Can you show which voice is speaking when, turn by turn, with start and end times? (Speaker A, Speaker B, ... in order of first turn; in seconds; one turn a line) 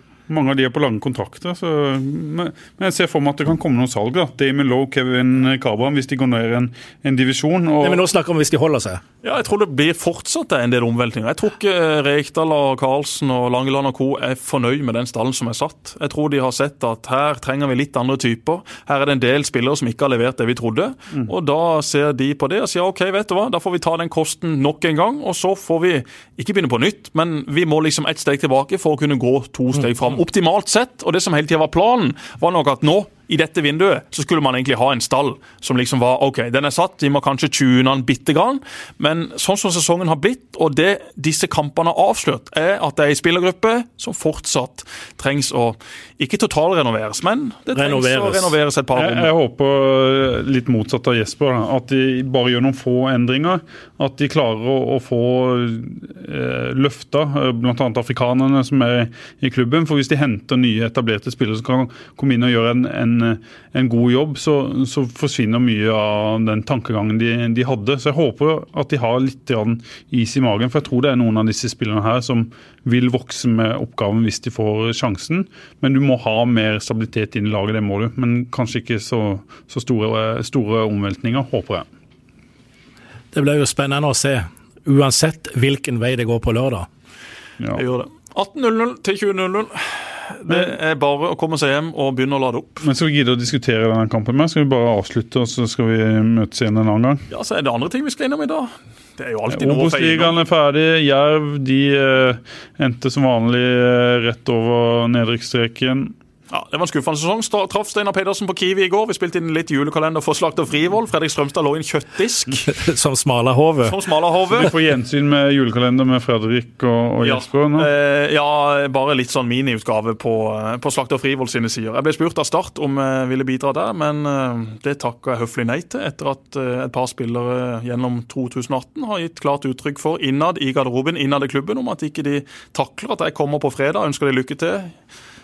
Speaker A: 0.3-8.0
Speaker B: 7.8-9.0
Speaker C: 9.2-49.3
Speaker B: 47.7-48.5
Speaker A: 49.0-81.9
Speaker B: 83.3-86.9
Speaker C: 87.7-92.8
Speaker A: 90.5-90.7
Speaker A: 92.8-97.2
Speaker C: 97.3-100.3
Speaker A: 99.5-106.1
Speaker C: 106.5-112.7
Speaker B: 112.7-114.0
Speaker C: 113.8-114.7
Speaker A: 114.5-117.9
Speaker C: 117.2-134.9